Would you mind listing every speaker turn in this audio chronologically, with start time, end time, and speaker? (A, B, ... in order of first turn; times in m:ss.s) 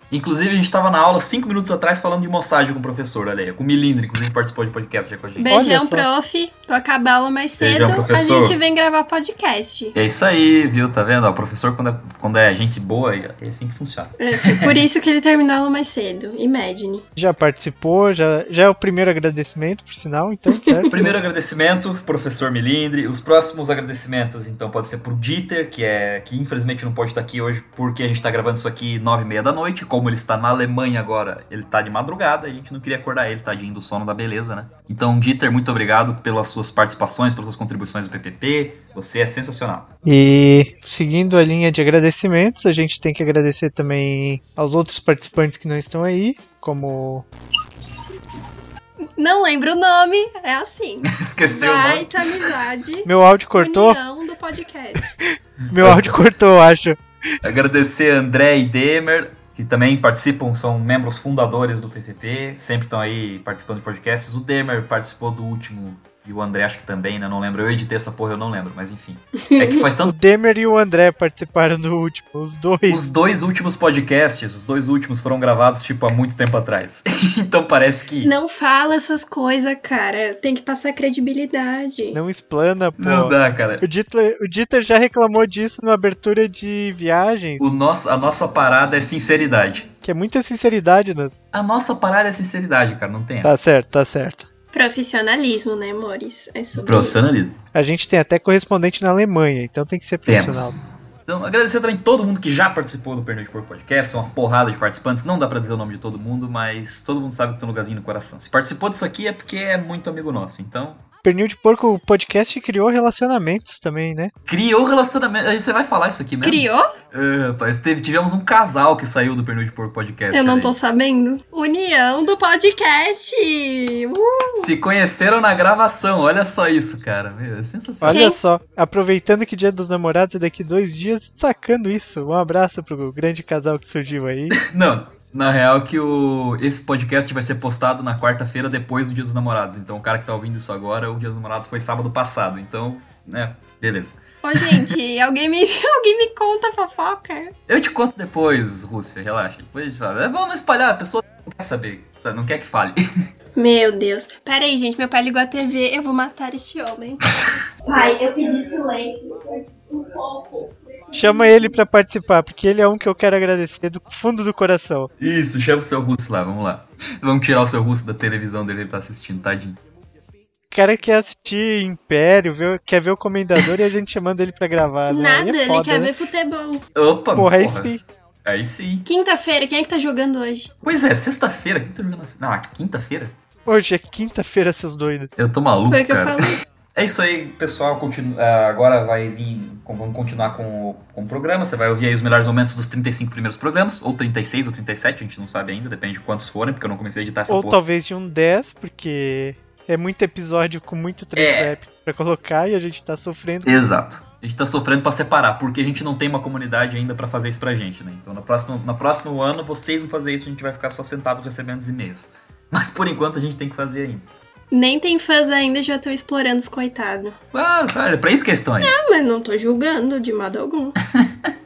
0:00.1-0:05.6 A
0:05.4-0:10.0 B
0:05.4-0:06.0 C
0:07.6-0:08.6 A
0:09.9-0:14.8 A
0:14.2-0:17.0 B
0:17.2-0:21.2 C
0:20.9-0:39.9 A
0:40.0-0:47.2 C
0:49.2-0:55.2 B
0:51.0-0:52.5 A
0:53.0-0:54.0 C
0:55.7-0:57.0 C
0:55.7-0:56.1 A
0:57.4-1:10.2 A
1:09.6-1:09.8 B
1:10.0-1:13.0 C
1:12.9-1:18.3 A
1:18.2-1:22.2 B
1:22.1-1:27.7 C
1:23.0-1:23.8 A
1:27.6-1:29.9 A
1:30.0-1:31.3 C
1:31.5-1:33.6 A
1:33.4-1:34.4 C
1:34.7-1:37.3 B
1:36.8-1:37.5 A
1:37.7-1:40.8 C
1:40.2-1:51.0 A
1:51.2-1:54.3 C
1:54.5-2:00.7 A
1:56.4-1:56.8 B
2:00.3-2:04.7 B
2:04.5-2:08.2 A
2:08.0-2:14.6 C
2:08.1-2:08.4 B
2:14.6-2:24.8 A
2:24.4-2:27.5 B
2:27.7-2:33.0 A
2:33.6-2:37.4 B
2:37.8-2:41.6 D
2:41.1-2:45.1 C
2:45.2-2:49.8 A
2:50.7-2:56.1 C
2:55.1-2:56.8 B
2:56.9-2:57.9 A
2:57.3-2:58.0 C
2:58.4-2:59.0 A
2:59.0-3:00.7 B
3:00.8-3:03.3 A
3:03.6-3:05.3 C
3:05.4-3:17.8 A
3:05.9-3:06.6 B
3:17.5-3:23.9 C
3:21.4-3:21.7 A
3:23.6-3:34.3 A
3:34.7-3:37.4 B
3:37.5-3:38.9 A
3:38.8-3:40.9 B